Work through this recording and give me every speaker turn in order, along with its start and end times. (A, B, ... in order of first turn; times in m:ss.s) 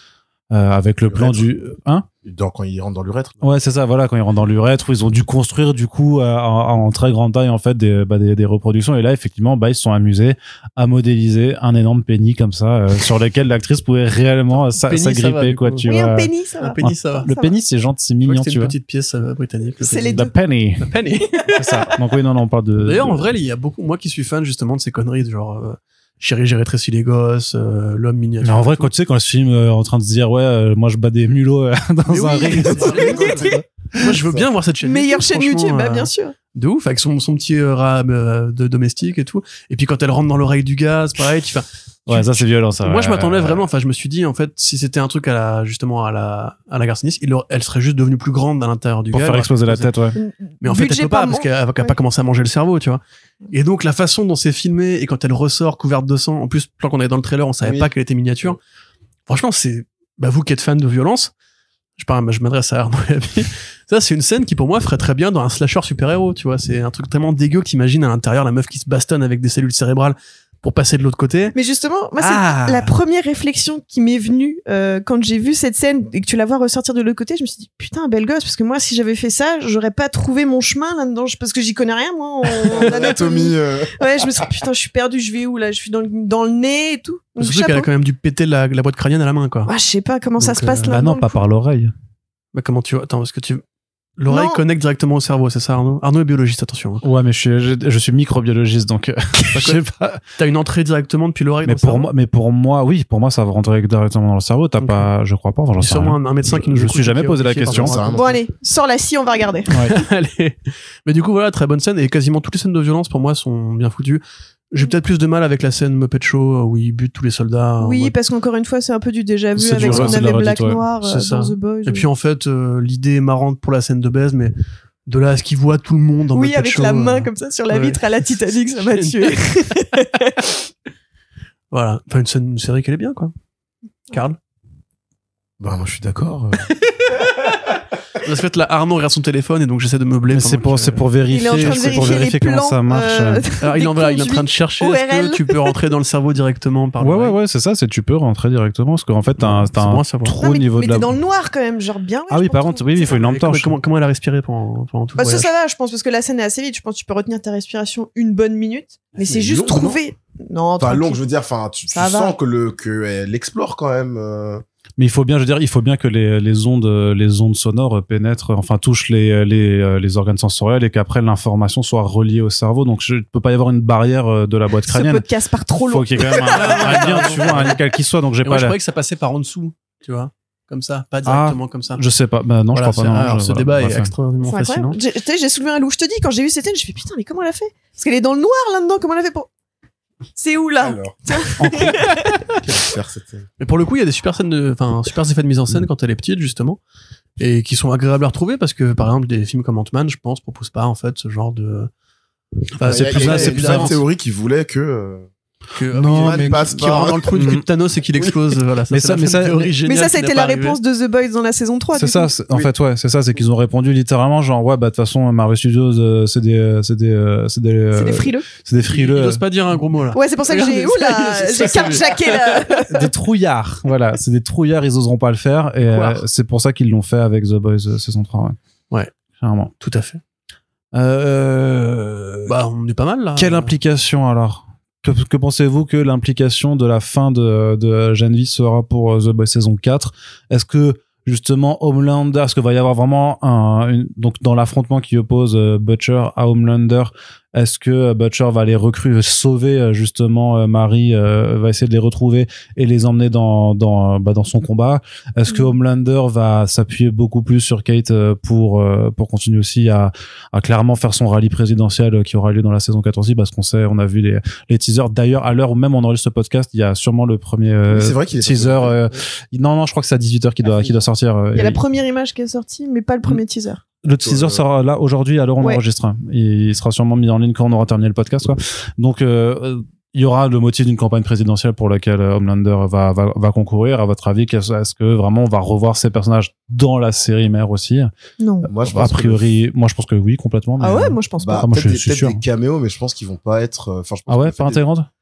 0:00.5-0:02.1 A
0:01.1-0:01.5 B
0:02.2-0:03.4 B
0:03.4-0:16.3 A
0:14.5-0:15.9 C
0:15.9-0:17.6 D
0:16.6-0:17.3 C
0:16.8-0:18.7 A
0:18.2-0:20.2 C
0:19.8-0:20.4 D
0:20.1-0:20.9 A
0:20.8-0:21.8 C
0:21.6-0:23.3 A
0:22.8-0:28.9 C
0:28.4-0:34.2 A
0:32.1-0:50.0 C
0:32.8-0:33.6 B
0:33.0-0:33.3 D
0:34.8-0:36.3 D
0:42.1-0:43.6 A
0:49.1-0:50.2 A
0:50.2-0:52.0 D
0:50.6-0:58.6 C
0:57.6-0:57.9 B
0:59.3-1:01.3 C
1:02.0-1:11.6 C
1:11.5-1:27.9 D
1:12.2-1:12.9 C
1:22.7-1:24.0 B
1:27.4-1:29.7 C
1:29.7-1:31.4 D
1:30.4-1:31.0 C
1:30.9-1:31.9 A
1:32.5-1:33.6 C
1:34.2-1:37.0 C
1:34.3-1:34.6 D
1:37.0-1:40.2 A
1:39.5-1:39.8 C
1:40.4-1:42.1 C
1:41.7-1:48.0 A
1:44.8-1:45.1 C
1:45.8-1:48.4 C
1:47.7-1:48.2 B
1:48.1-1:49.7 D
1:49.7-1:50.0 A
1:49.7-1:58.2 C
1:57.8-2:02.1 D
1:59.6-2:00.8 A
1:59.8-2:00.4 C
2:01.0-2:04.5 C
2:05.1-2:08.2 C
2:06.3-2:10.4 D
2:09.0-2:09.8 C
2:11.7-2:13.3 C
2:14.1-2:14.4 C
2:15.6-2:16.7 B
2:16.7-2:17.3 C
2:18.2-2:22.1 C
2:20.3-2:23.4 A
2:21.3-2:25.6 D
2:23.6-2:27.4 C
2:27.0-2:31.1 A
2:29.4-2:30.4 C
2:30.4-2:33.2 D
2:32.3-2:33.8 A
2:33.1-2:35.5 C
2:35.2-2:41.2 D
2:39.2-2:40.0 C
2:40.8-2:44.6 B
2:41.9-2:42.4 D
2:45.0-2:55.2 A
2:54.9-2:57.5 D
2:55.9-2:58.8 A
2:56.5-2:57.9 C
2:58.4-3:02.0 C
3:01.3-3:04.1 A
3:02.7-3:05.0 C
3:04.4-3:09.5 D
3:10.4-3:12.2 D
3:10.8-3:11.2 B
3:11.6-3:12.0 A
3:12.6-3:13.5 B
3:13.6-3:16.8 C
3:17.4-3:21.9 C
3:22.8-3:24.0 C
3:22.8-3:24.0 A
3:22.8-3:25.3 B
3:25.7-3:30.8 C
3:25.9-3:27.6 A
3:25.9-3:27.6 B
3:28.9-3:29.7 A
3:29.8-3:32.3 D
3:32.0-3:39.4 A
3:37.9-3:38.5 D
3:38.8-3:42.8 C
3:40.1-3:43.1 D
3:42.9-3:48.6 A
3:45.8-3:46.2 C
3:49.4-3:49.7 A
3:49.8-3:50.2 C
3:50.9-3:52.6 A
3:52.5-3:53.7 C
3:53.4-4:31.8 A
4:27.9-4:29.1 B
4:31.5-4:33.8 D
4:34.0-4:48.1 A
4:34.2-4:34.6 B
4:48.4-4:48.7 D
4:48.6-4:49.5 B
4:48.8-4:52.4 A
4:50.8-4:51.7 D
4:51.4-4:54.8 B
4:54.3-4:55.1 A